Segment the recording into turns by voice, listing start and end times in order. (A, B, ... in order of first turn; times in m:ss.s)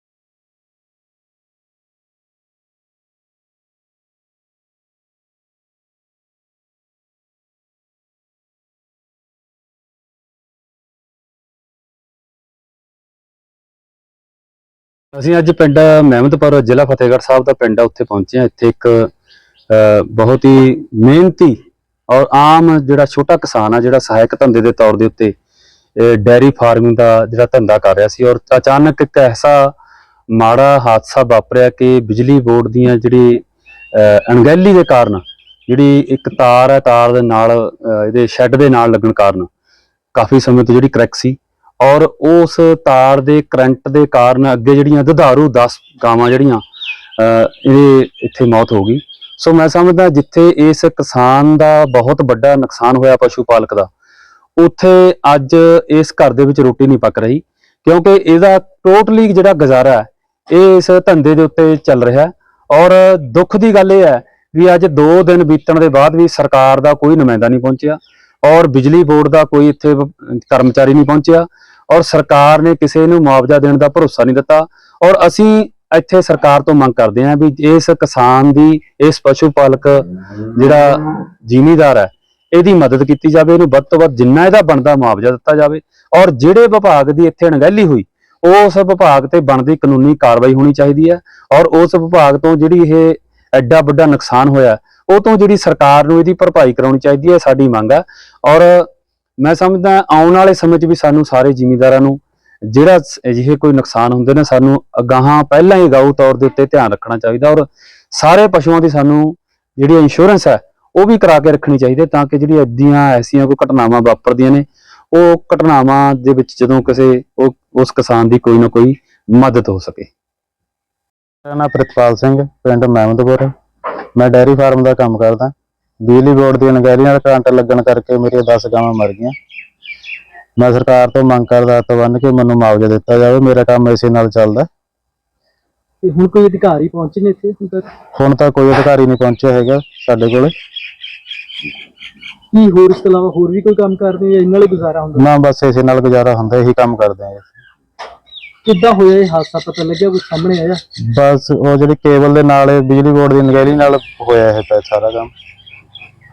0:15.2-0:19.1 A
0:19.7-0:21.6 A
0:22.1-0:25.3 A
0:26.0-0:29.7 A
0:30.3-0:39.5 A
0:40.2-0:46.6 A
0:47.2-0:53.9 A
0:54.6-1:38.9 A
1:39.4-2:00.1 A
2:01.4-2:03.5 B
2:04.2-2:05.5 B
2:06.0-2:09.3 B
2:10.6-2:14.7 B
2:16.0-2:17.9 C
2:18.2-2:20.5 B
2:22.5-2:25.2 C
2:25.2-2:27.5 B
2:28.6-2:30.8 C
2:31.1-2:35.3 B